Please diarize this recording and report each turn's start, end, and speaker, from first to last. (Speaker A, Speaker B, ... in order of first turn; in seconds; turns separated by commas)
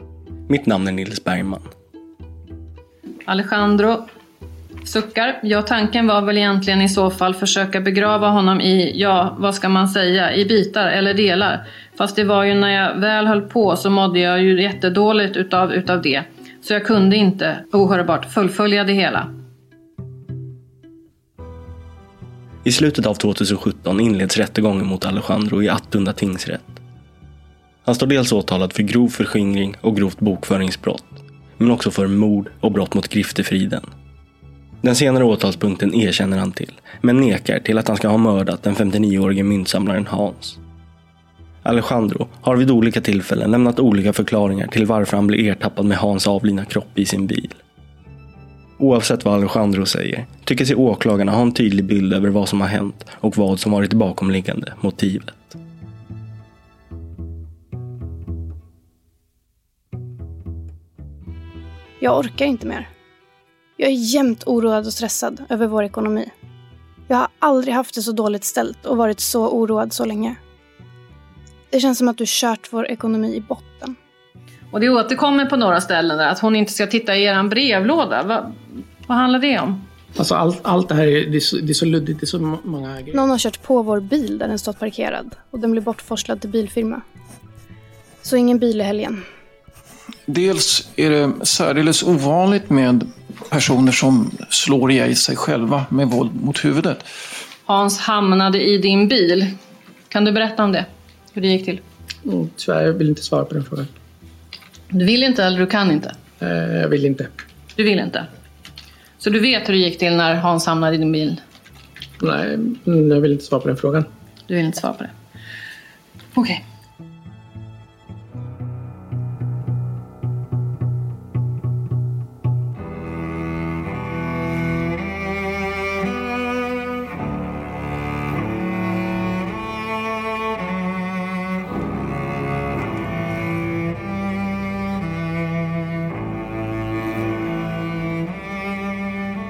Speaker A: 0.5-1.6, Speaker B: 3.3-4.1, Speaker B: 4.8-19.3, Speaker A: 22.6-26.8, Speaker A: 27.8-33.9, Speaker A: 34.8-40.6, Speaker A: 41.6-47.6, Speaker A: 48.8-55.6, Speaker C: 62.0-62.9, Speaker C: 63.8-66.3, Speaker C: 67.1-70.4, Speaker C: 71.7-74.0, Speaker B: 74.7-79.8, Speaker D: 80.2-83.3, Speaker C: 83.1-87.0, Speaker C: 88.2-89.2, Speaker E: 90.3-97.1, Speaker B: 97.7-99.5, Speaker B: 100.1-101.8, Speaker D: 102.2-103.9, Speaker B: 104.9-106.1, Speaker D: 106.4-107.3, Speaker B: 107.8-108.3, Speaker B: 109.2-111.4, Speaker D: 112.2-114.1, Speaker B: 114.5-115.1, Speaker B: 116.3-116.6